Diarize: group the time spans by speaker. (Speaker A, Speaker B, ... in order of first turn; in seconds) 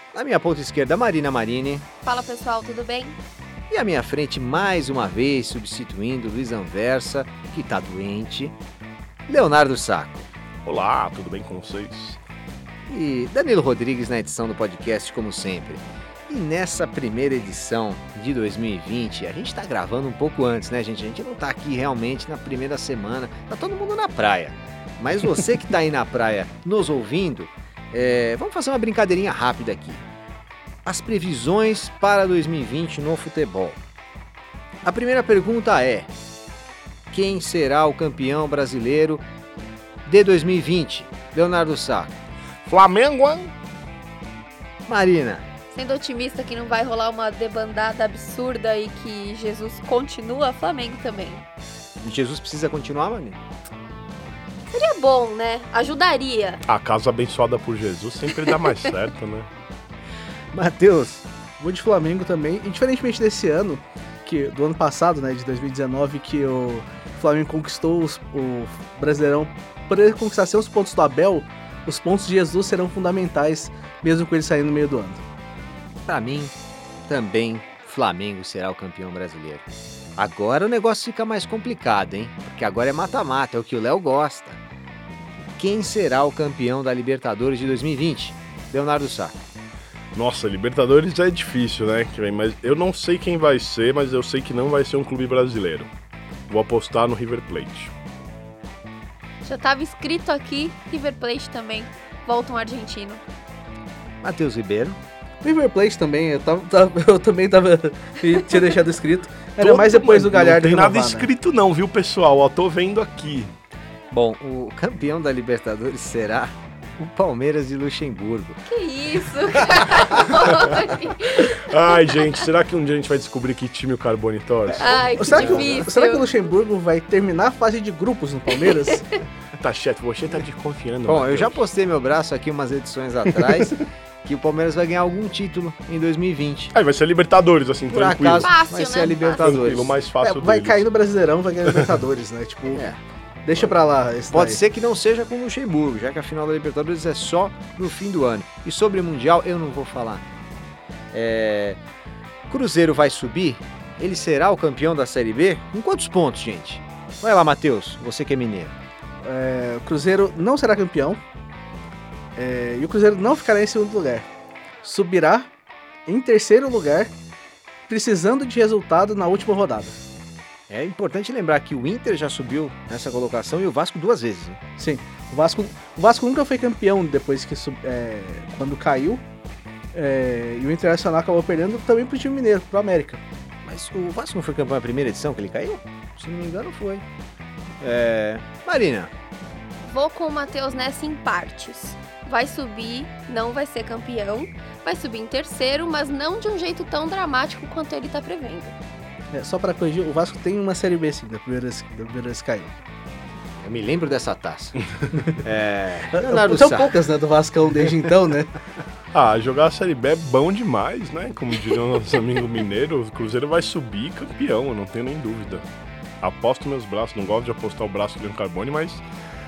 Speaker A: 0.1-1.8, 3.7-8.6, 9.3-10.3, 12.8-30.0, 30.8-33.8, 34.8-36.1, 37.1-39.2, 40.0-42.1, 44.9-45.4, 52.0-53.4, 60.5-61.2, 76.1-76.5, 77.1-84.6, 85.6-89.3, 104.2-105.0, 114.1-118.6, 131.0-136.7, 137.9-140.0, 142.7-143.0, 144.3-150.2, 151.1-151.8, 152.5-158.7, 170.7-174.6, 183.7-187.0, 187.8-189.1, 203.6-204.8, 205.4-207.0
Speaker B: 2.0-3.2, 45.7-51.4, 54.7-56.6, 58.4-58.7, 99.4-103.2, 118.7-122.4, 124.8-126.3, 138.4-139.7, 189.8-198.7
Speaker C: 10.6-12.2, 42.6-43.5, 56.6-59.5, 90.1-95.9, 96.5-97.9, 109.6-113.5, 120.5-125.7, 129.6-131.6, 133.4-133.6, 136.7-138.5, 139.3-140.8, 209.1-215.6, 216.2-219.0
Speaker D: 61.6-75.2, 105.4-111.3, 125.1-129.1, 140.2-142.9, 143.4-144.6, 159.2-161.2, 162.3-164.3, 164.8-165.5, 166.1-167.1, 167.9-170.0, 174.8-179.2, 179.9-183.2, 199.3-202.7, 206.1-208.5